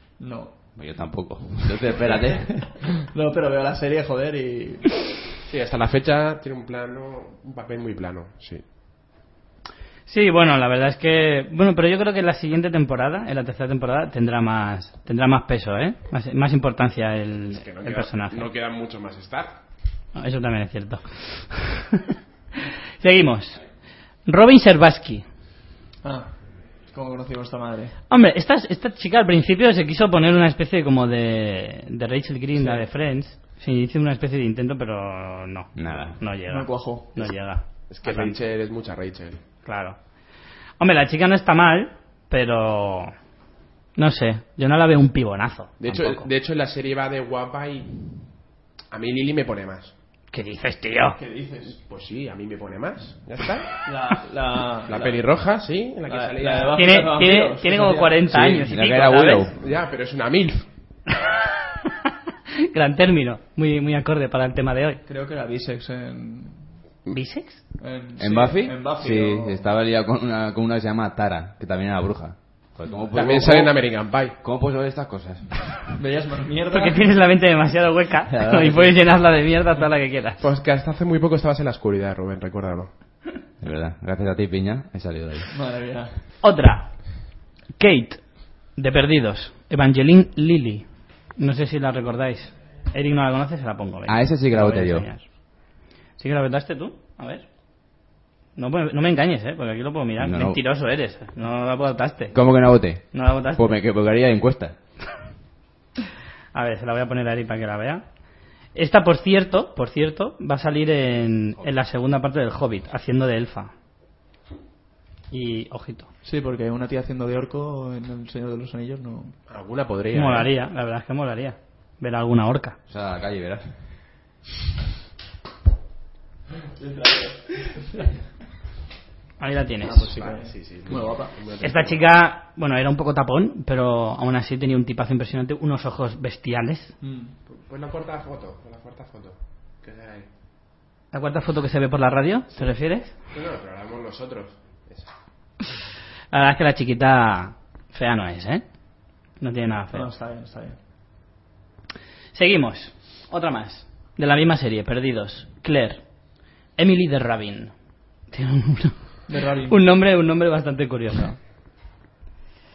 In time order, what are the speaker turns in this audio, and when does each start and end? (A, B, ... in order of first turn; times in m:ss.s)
0:00.2-0:00.6 A
0:00.8-0:02.8 B
0:03.0-0:05.0 A
0:05.5-0:08.6 C
0:10.1-0:18.5 D
0:17.5-0:19.5 C
0:20.1-0:21.8 D
0:23.0-0:23.6 D
0:24.2-0:25.2 D
0:26.0-0:28.0 A
0:28.1-0:38.4 D
0:32.6-0:32.8 A
0:35.8-0:36.2 B
0:36.5-0:37.2 A
0:37.9-0:39.4 C
0:39.6-0:40.0 D
0:40.8-0:43.1 D
0:44.0-0:46.3 D
0:45.8-0:47.9 C
0:48.9-0:49.9 C
0:50.3-0:51.2 D
0:51.2-0:51.8 A
0:51.8-0:53.7 C
0:53.8-0:55.2 A
0:54.9-0:56.8 C
0:56.1-0:58.2 A
0:56.7-0:59.5 D
0:58.3-0:59.5 B
0:59.6-1:00.7 C
1:02.7-1:05.0 D
1:05.0-1:06.7 A
1:07.1-1:07.6 D
1:07.8-1:09.6 A
1:08.2-1:13.8 B
1:13.1-1:14.4 C
1:14.4-1:15.7 B
1:16.0-1:17.1 A
1:16.7-1:20.4 D
1:18.3-1:19.0 B
1:20.4-1:22.9 C
1:23.6-1:25.5 B
1:25.5-1:26.1 A
1:26.4-1:35.3 D
1:34.1-1:35.1 B
1:36.2-1:37.4 D
1:38.6-1:42.4 D
1:40.2-1:40.6 B
1:42.3-1:44.7 B
1:43.0-1:43.8 D
1:46.5-1:48.0 D
1:48.7-1:53.7 D
1:55.3-1:56.1 D
1:56.2-1:59.4 A
1:59.5-2:00.5 C
2:00.1-2:02.8 D
2:02.9-2:03.7 B
2:06.8-2:08.1 A
2:09.4-2:10.1 D
2:09.8-2:11.3 A
2:10.1-2:12.0 C
2:11.6-2:16.9 D
2:17.0-2:17.3 A
2:17.5-2:20.3 C
2:21.1-2:23.1 D
2:23.3-2:25.1 C
2:26.3-2:28.6 D
2:29.4-2:30.1 D
2:29.9-2:30.8 A
2:32.3-2:36.1 D
2:36.8-2:37.7 D
2:38.3-2:41.4 D
2:39.3-2:39.8 A